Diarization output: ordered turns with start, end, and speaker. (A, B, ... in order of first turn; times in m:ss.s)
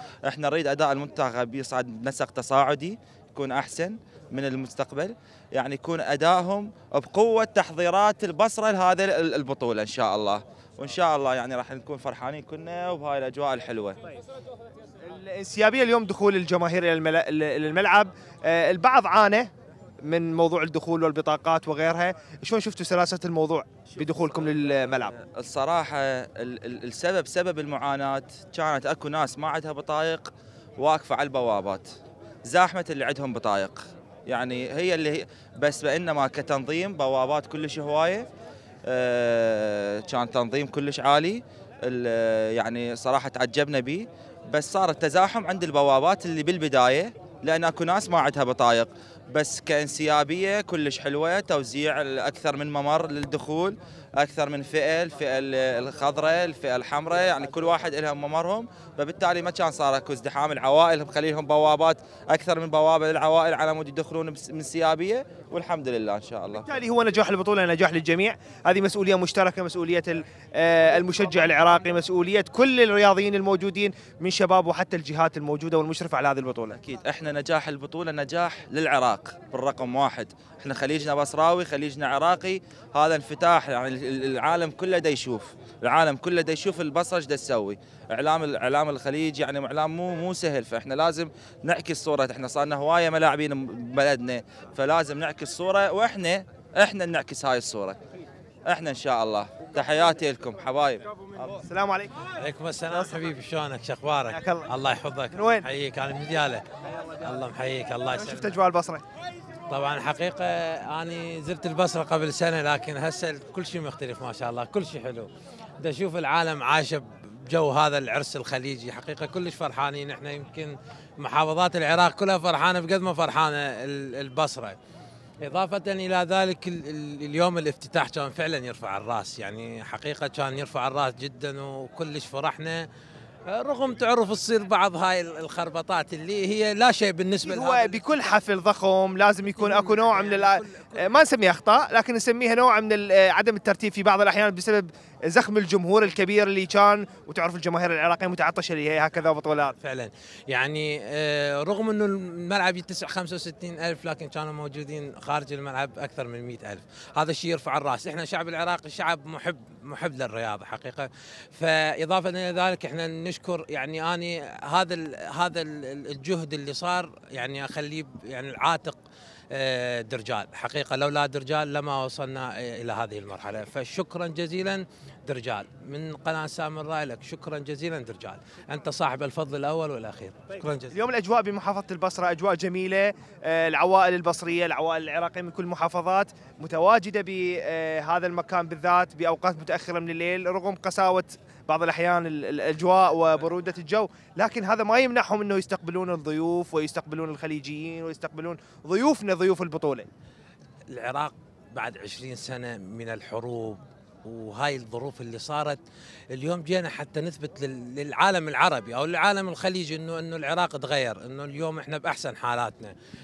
0:00.3-0:14.0 A
0:15.0-0:19.5 B
0:20.0-0:25.1 B
0:25.2-0:30.3 A
0:30.8-0:31.8 A
0:32.5-0:33.8 A
0:34.3-0:38.2 A
0:38.9-0:41.4 A
0:42.6-0:44.0 A
0:44.5-1:06.6 A
1:06.6-1:16.8 B
1:16.8-1:38.0 A
1:38.7-1:41.0 A
1:41.6-1:42.1 B
1:42.4-1:46.6 C
1:44.3-1:44.6 B
1:45.3-1:45.7 B
1:47.2-1:48.5 C
1:48.1-1:49.0 B
1:49.7-1:55.3 C
1:55.8-2:04.8 C
2:05.4-2:12.8 C
2:13.5-2:18.3 C
2:17.4-2:29.7 B
2:29.8-2:49.0 C
2:49.5-3:00.9 C
3:00.9-3:20.1 B
3:20.9-3:25.8 C
3:26.3-3:32.9 C